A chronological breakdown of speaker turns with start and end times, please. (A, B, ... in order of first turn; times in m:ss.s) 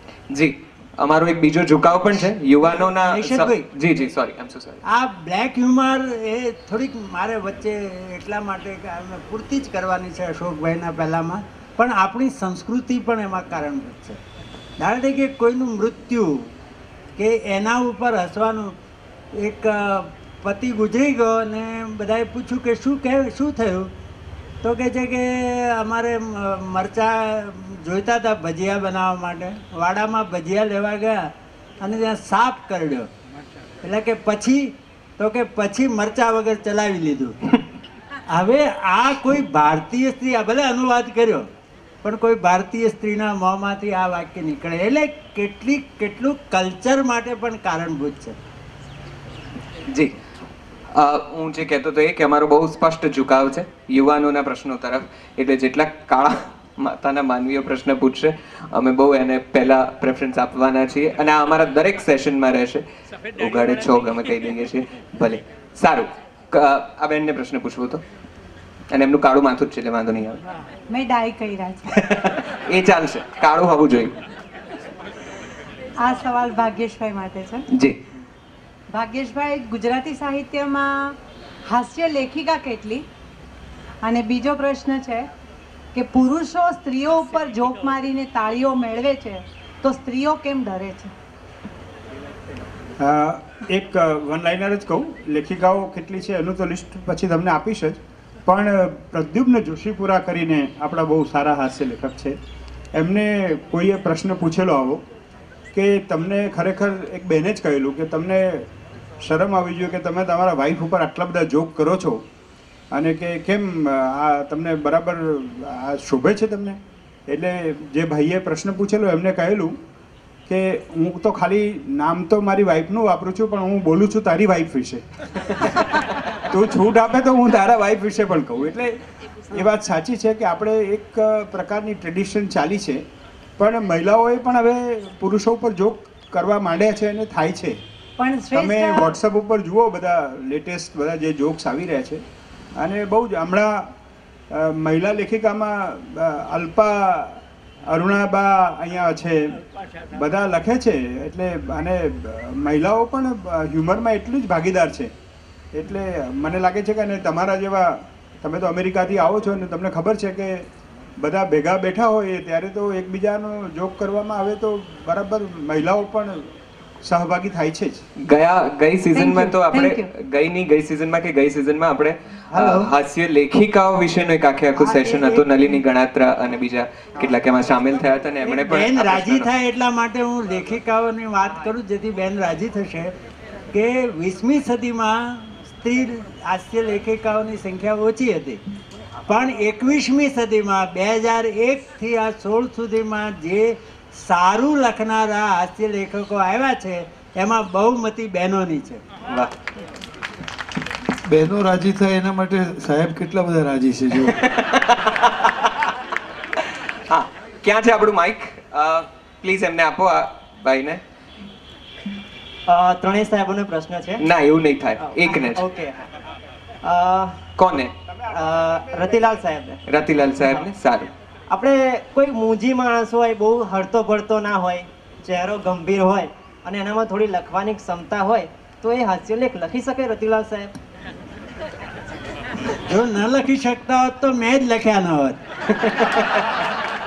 0:00.3-0:04.8 A
0:03.0-0:03.7 B
0:04.9-0:14.2 B
0:14.8-0:16.5 B
0:17.2-0:18.7 B
0:19.4-0:23.9 B
0:24.6-0:31.3 B
0:31.8-0:33.1 B
0:33.8-0:37.4 B
0:38.3-0:41.5 B
0:42.0-0:48.4 B
0:49.9-0:50.1 A
0:51.0-1:02.8 A
1:03.4-1:08.0 A
1:08.9-1:10.4 A
1:10.9-1:11.9 C
1:12.0-1:14.1 A
1:16.0-1:17.6 C
1:17.7-1:18.0 A
1:18.9-1:21.2 C
1:21.7-1:23.0 C
1:24.0-1:25.3 C
1:25.9-1:31.1 C
1:33.0-1:42.4 D
1:43.0-1:45.0 D
1:45.7-1:48.7 D
1:49.2-1:52.2 D
1:52.9-1:59.8 D
2:00.5-2:05.0 D
2:06.5-2:09.0 D
2:09.5-2:13.0 D
2:13.6-2:17.8 D
2:18.2-2:19.2 C
2:18.5-2:22.2 D
2:22.8-2:23.9 D
2:24.5-2:29.4 D
2:30.1-2:35.1 D
2:35.7-2:40.7 D
2:41.2-2:46.5 D
2:47.0-2:48.0 D
2:48.2-2:59.5 A
2:49.1-2:50.1 C
2:52.5-2:52.9 B
2:54.8-2:55.4 B
2:58.4-3:03.1 B
3:03.7-3:08.6 B
3:09.3-3:19.0 B
3:19.3-3:19.5 A
3:21.3-3:24.4 E
3:24.3-3:25.7 A
3:27.1-3:31.0 A
3:32.7-3:34.2 F
3:34.2-3:35.6 A
3:35.0-3:35.9 F
3:36.8-3:37.3 F
3:37.6-3:37.9 A
3:38.3-3:39.8 F
3:39.9-3:41.1 A
3:41.5-3:50.7 F
3:52.9-3:55.4 B
3:55.8-3:56.4 A